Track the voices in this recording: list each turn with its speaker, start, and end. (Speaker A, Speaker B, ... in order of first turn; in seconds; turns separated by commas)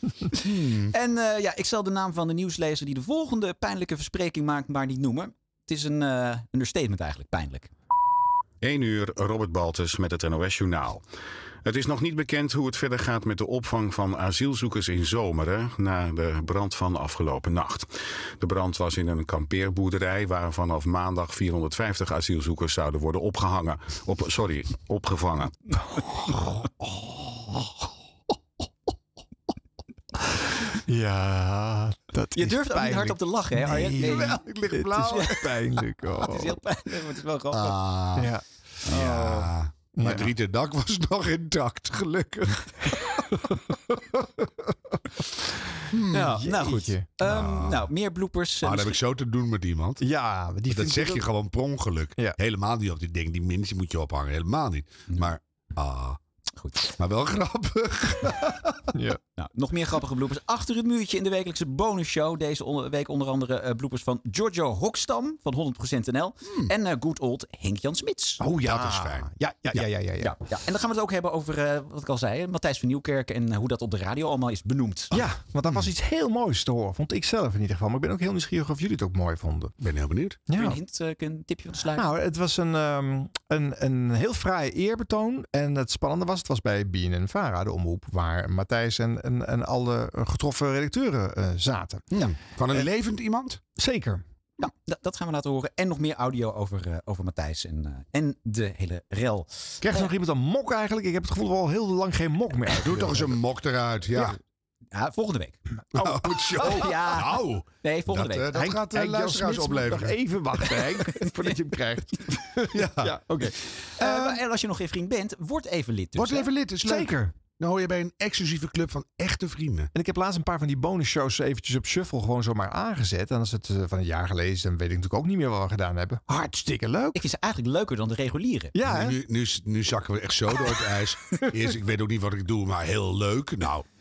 Speaker A: 0.5-0.9, Speaker B: 0.9-7.7, Speaker C: 8.6-11.0, Speaker C: 11.6-25.5, Speaker D: 30.9-36.6, Speaker B: 32.4-34.4, Speaker A: 34.0-35.2, Speaker B: 35.0-35.3, Speaker B: 36.1-37.8, Speaker A: 37.5-38.3, Speaker D: 38.2-38.4, Speaker B: 38.9-39.5, Speaker A: 38.9-43.0, Speaker D: 40.0-40.3, Speaker A: 45.9-47.8, Speaker D: 46.1-47.1, Speaker B: 46.1-49.0, Speaker A: 48.6-50.0, Speaker D: 50.0-51.3, Speaker A: 50.7-56.2, Speaker B: 56.6-56.9, Speaker A: 57.0-58.7, Speaker D: 58.9-59.2, Speaker B: 59.4-68.4, Speaker D: 68.4-70.3, Speaker A: 68.4-69.8, Speaker B: 70.2-75.2, Speaker D: 75.1-79.7, Speaker A: 79.8-80.4, Speaker D: 80.5-80.8, Speaker B: 80.5-82.1, Speaker D: 81.9-92.0, Speaker A: 92.1-93.6, Speaker D: 93.8-94.2, Speaker B: 94.6-99.8, Speaker D: 99.8-103.4, Speaker A: 102.8-104.4, Speaker B: 104.9-105.6, Speaker A: 105.9-110.2, Speaker B: 106.6-108.5, Speaker D: 108.5-113.5, Speaker A: 112.7-113.2, Speaker B: 114.0-116.5, Speaker A: 116.2-119.9, Speaker D: 116.8-117.3, Speaker D: 119.9-127.2, Speaker B: 127.1-128.8, Speaker D: 128.8-129.2, Speaker A: 128.8-133.8